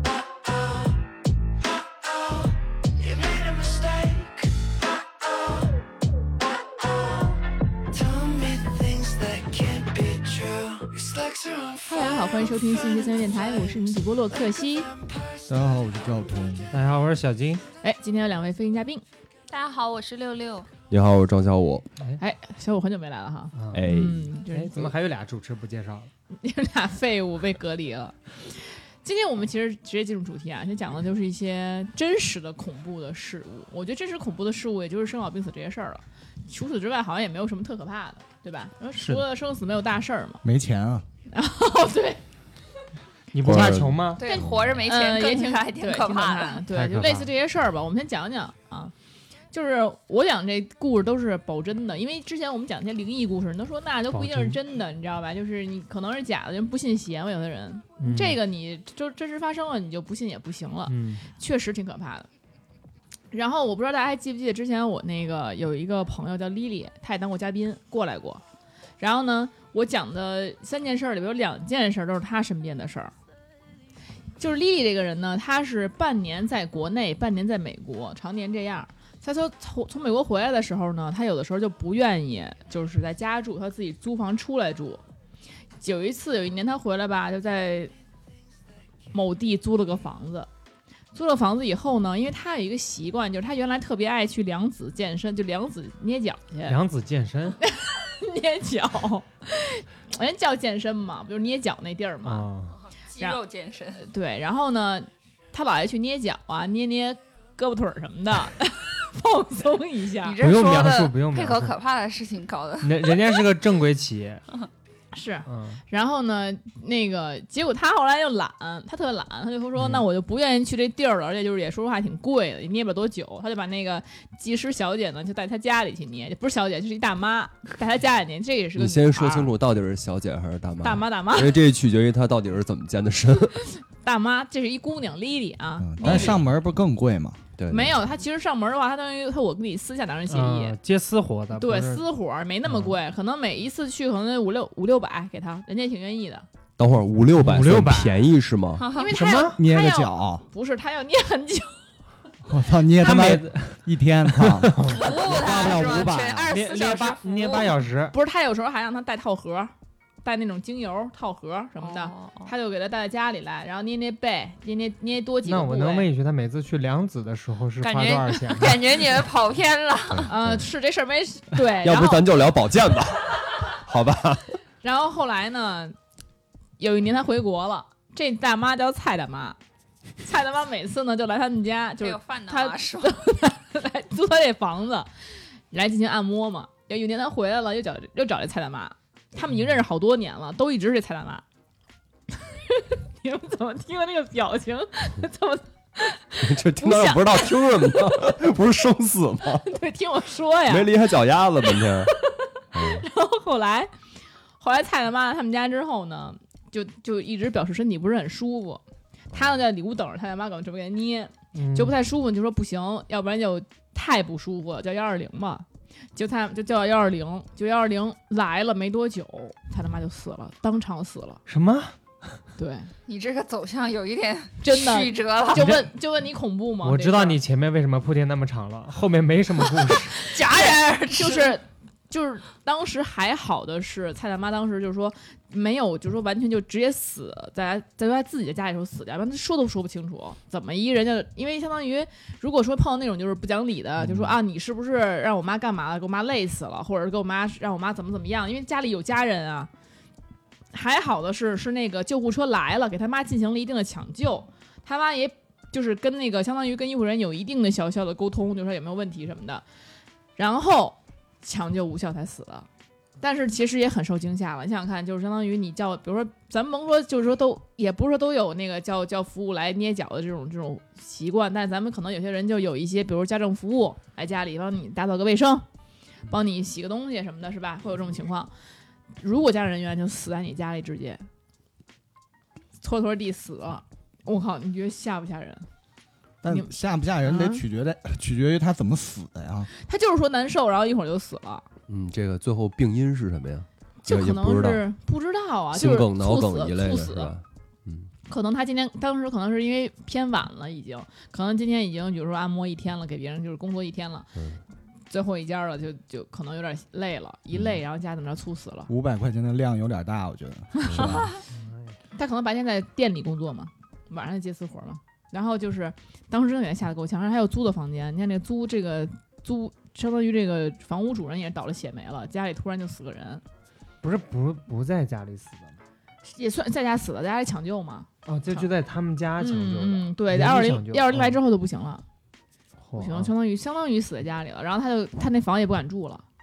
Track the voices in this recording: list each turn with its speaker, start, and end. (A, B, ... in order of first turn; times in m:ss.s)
0:00.3-0:01.0 A
0:01.7-0:05.8 A
0:06.7-0:15.4 A
0:11.8-0:14.9 B
0:15.5-0:16.7 C
0:16.7-0:17.6 D
0:17.8-0:19.0 B
0:19.5-0:20.7 E
0:20.9-0:21.9 F
0:22.2-0:24.9 B
0:23.6-0:23.9 D
0:23.7-0:24.3 F
0:24.5-0:26.1 D
0:26.3-0:40.4 B
0:39.0-0:39.3 D
0:40.4-0:41.1 C
0:41.3-0:42.2 B
0:43.3-0:44.2 D
0:43.4-0:44.7 F
0:44.2-0:46.6 E
0:44.3-0:48.9 B
0:46.7-0:47.3 D
0:49.5-1:02.3 B
0:54.1-0:54.6 D
0:58.0-0:58.4 D
1:00.9-1:01.3 D
1:03.3-1:08.4 B
1:09.0-1:13.1 B
1:14.4-1:25.0 B
1:25.8-1:27.9 B
1:29.1-1:30.5 B
1:31.1-1:36.8 B
1:36.6-1:37.6 D
1:37.6-1:42.5 B
1:42.2-1:42.8 D
1:42.9-1:44.1 E
1:44.0-1:50.4 B
1:50.2-1:53.4 E
1:50.4-1:51.8 D
1:52.8-1:54.4 D
1:55.1-2:09.5 B
1:55.5-1:55.8 D
1:59.8-2:00.0 D
2:08.8-2:13.6 F
2:10.8-2:11.6 B
2:13.6-2:16.4 B
2:15.8-2:17.4 C
2:16.0-2:16.4 F
2:17.6-2:18.0 F
2:17.7-2:20.8 B
2:20.3-2:22.1 D
2:21.5-2:26.5 B
2:22.7-2:22.9 D
2:26.8-2:28.8 F
2:27.4-2:28.3 D
2:28.8-2:29.2 E
2:28.9-2:31.8 B
2:29.1-2:29.6 D
2:29.6-2:30.4 C
2:32.5-2:36.6 C
2:33.0-2:38.2 D
2:34.9-2:37.8 E
2:38.1-2:39.7 B
2:40.2-2:46.1 B
2:41.8-2:42.5 E
2:45.4-2:48.8 D
2:47.8-2:50.3 E
2:50.3-2:52.2 B
2:51.8-2:54.6 F
2:54.8-2:56.0 B
2:56.8-2:59.6 B
3:00.2-3:05.1 B
3:02.0-3:03.2 E
3:05.7-3:11.4 B
3:12.4-3:18.1 B
3:16.4-3:19.7 F
3:19.6-3:21.0 B
3:20.7-3:22.1 F
3:21.6-3:23.9 B
3:22.7-3:23.1 F
3:24.6-3:28.8 B
3:29.3-3:41.4 B
3:31.5-3:32.0 D
3:41.5-3:42.0 D
3:42.6-3:42.9 B
3:43.1-3:45.6 E
3:44.6-3:47.4 B
3:45.5-3:45.9 D
3:46.8-3:50.2 D
3:50.3-3:51.6 E
3:50.5-4:09.7 B
4:10.7-4:19.6 B
4:20.4-4:22.7 B
4:23.2-4:35.7 B
4:36.3-4:38.5 B
4:39.2-4:41.2 B
4:42.8-4:45.7 B
4:46.4-4:49.7 C
4:47.2-4:47.6 B
4:49.8-4:51.7 B
4:51.9-4:54.8 F
4:54.0-4:57.3 B
4:55.7-4:58.1 F
4:58.3-5:04.3 B
5:04.4-5:04.6 F
5:05.1-5:08.9 B
5:08.9-5:11.3 C
5:10.9-5:11.2 F
5:11.0-5:11.4 E
5:11.5-5:12.0 D
5:12.2-5:23.4 B
5:24.0-5:25.8 D
5:26.2-5:28.7 B
5:28.2-5:31.4 D
5:29.4-5:32.0 B
5:32.8-5:33.3 D
5:33.0-5:36.2 B